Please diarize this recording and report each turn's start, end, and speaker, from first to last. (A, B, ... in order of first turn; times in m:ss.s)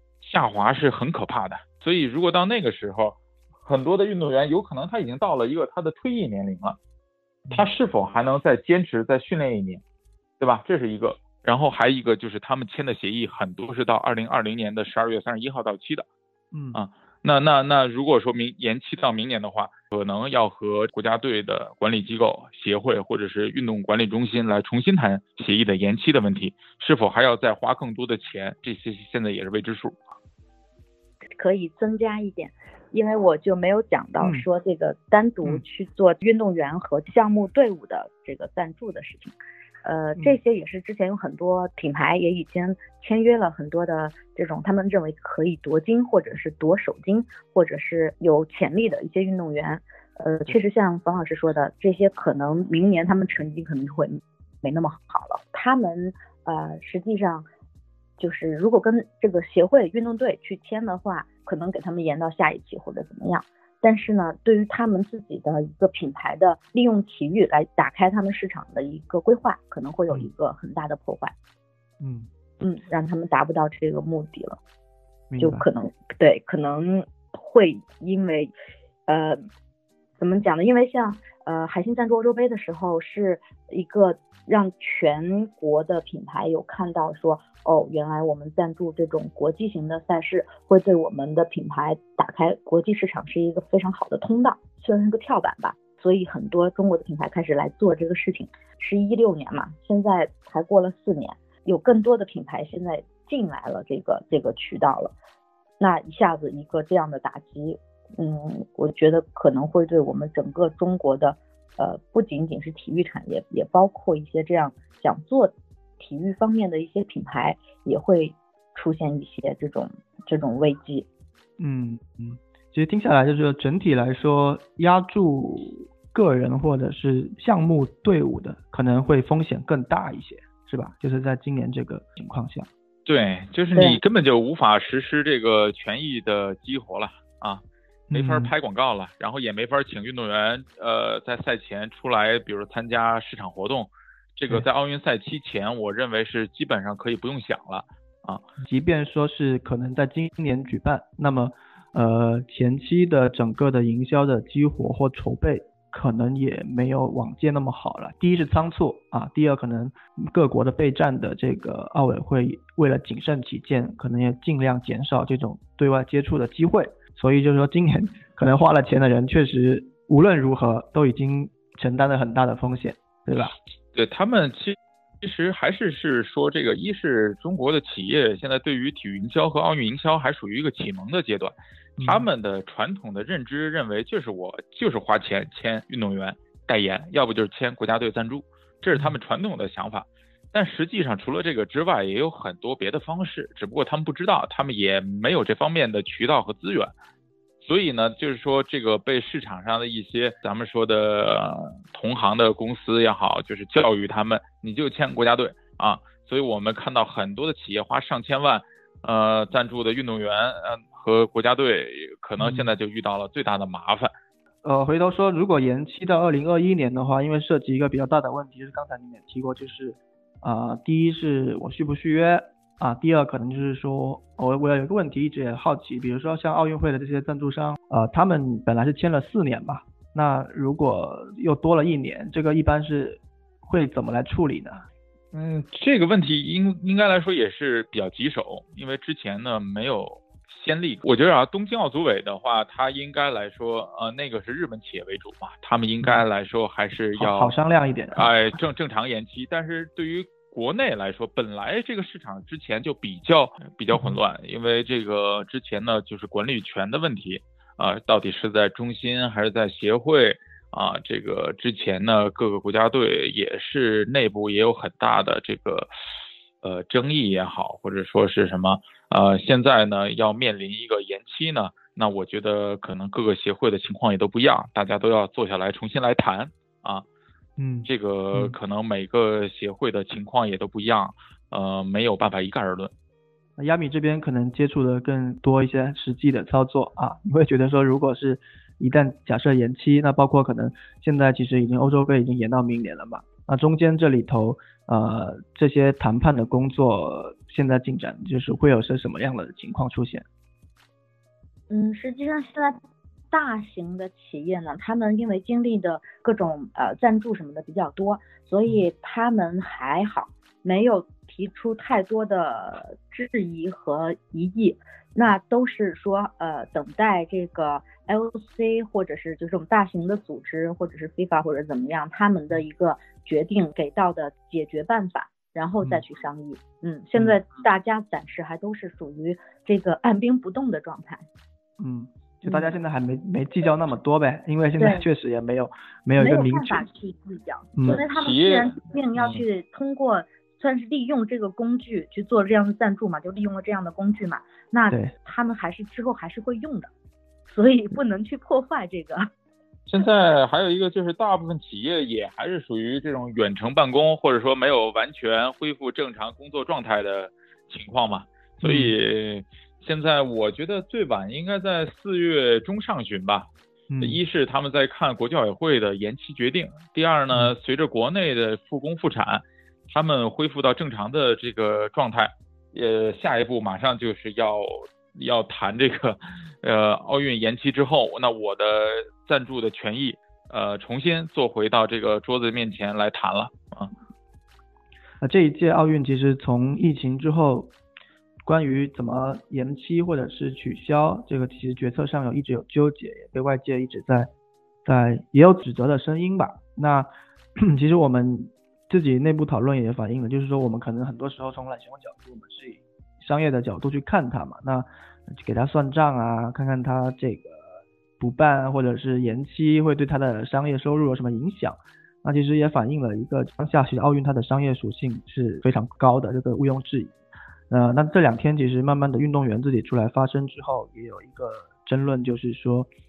0:00.2-0:06.8 A
0:07.5-0:09.8 A
0:10.4-0:16.1 A
0:16.5-0:16.8 B
0:16.7-0:30.2 A
0:31.4-0:57.5 C
0:58.2-1:11.3 C
1:12.0-1:12.3 B
1:12.6-1:14.6 C
1:15.3-1:15.7 B
1:15.4-1:18.5 C
1:19.1-1:19.4 C
1:20.2-1:45.1 C
1:45.8-2:01.1 C
2:01.6-2:12.7 B
2:13.1-2:28.5 A
2:13.8-2:14.0 C
2:18.1-2:18.5 B
2:28.6-2:53.6 B
2:53.9-3:16.9 A
3:02.0-3:02.3 B
3:17.6-3:34.1 A
3:32.4-3:32.7 B
3:34.6-3:54.9 B
3:55.3-4:07.5 A
4:07.2-4:08.3 B
4:08.2-4:25.9 A
4:26.6-4:37.0 A
4:37.6-4:38.6 B
4:37.9-4:42.9 A
4:43.6-5:00.2 B
5:01.7-5:02.8 C
5:03.3-5:31.2 C
5:31.8-5:36.9 B
5:32.5-5:32.7 C
5:34.8-5:35.0 C
5:36.2-5:46.9 C
5:37.8-5:38.0 B
5:37.9-5:39.4 A
5:47.5-5:49.3 C
5:49.9-6:03.5 A
5:58.6-5:59.0 B
6:03.9-6:04.2 B
6:04.0-6:23.9 A
6:25.2-6:27.7 B
6:28.4-6:34.3 B
6:34.8-6:47.7 B
6:48.2-6:57.2 B
6:57.7-7:02.9 B